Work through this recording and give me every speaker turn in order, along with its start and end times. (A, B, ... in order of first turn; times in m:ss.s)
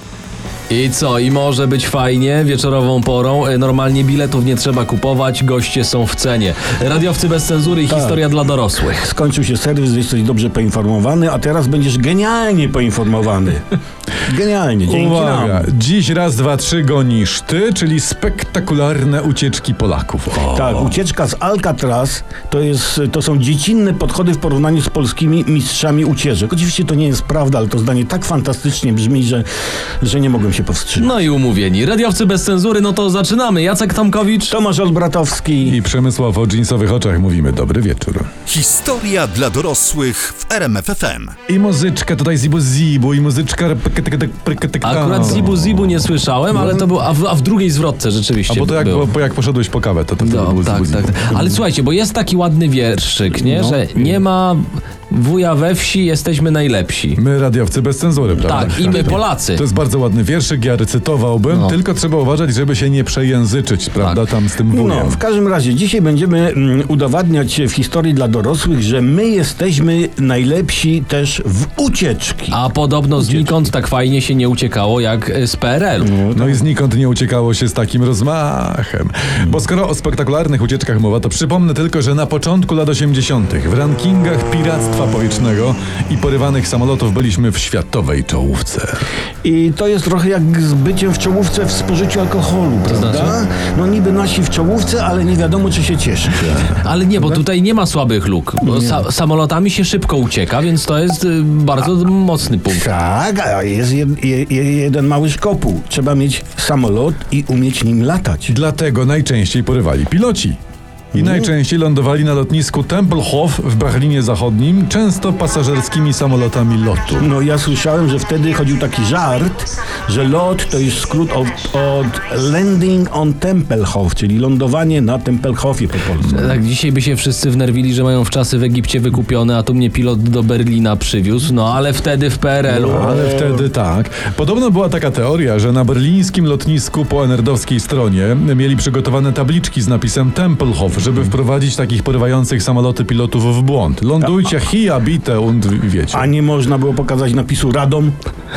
0:00.7-0:09.1 A
0:07.9-0:08.2 B
0:09.0-0:13.7 B
0:14.3-0:15.7 B
0:14.9-0:21.0 C
0:20.5-0:29.4 B
0:30.0-0:31.2 B
0:31.0-0:34.6 A
0:34.5-0:35.8 B
0:35.6-0:38.3 C
0:38.5-0:41.3 D
0:41.5-0:45.8 C
0:44.8-0:49.1 A
0:46.5-0:46.9 C
0:48.5-0:51.1 C
0:50.2-0:57.2 A
0:53.3-0:53.8 B
0:57.2-1:05.2 C
0:58.4-0:59.1 B
0:58.4-0:59.6 A
1:01.5-1:01.8 A
1:04.7-1:12.6 B
1:12.5-1:16.1 A
1:13.2-1:13.6 B
1:16.0-1:16.6 B
1:16.3-1:29.0 C
1:29.4-1:37.4 B
1:32.9-1:33.4 A
1:36.4-1:36.8 C
1:36.8-1:42.9 A
1:38.6-1:39.0 B
1:42.7-1:48.6 B
1:48.5-1:50.6 C
1:51.1-1:51.5 B
1:51.1-1:57.3 C
1:57.2-2:06.4 B
2:06.2-2:13.1 A
2:12.7-2:13.7 B
2:12.9-2:26.3 C
2:26.1-2:28.1 B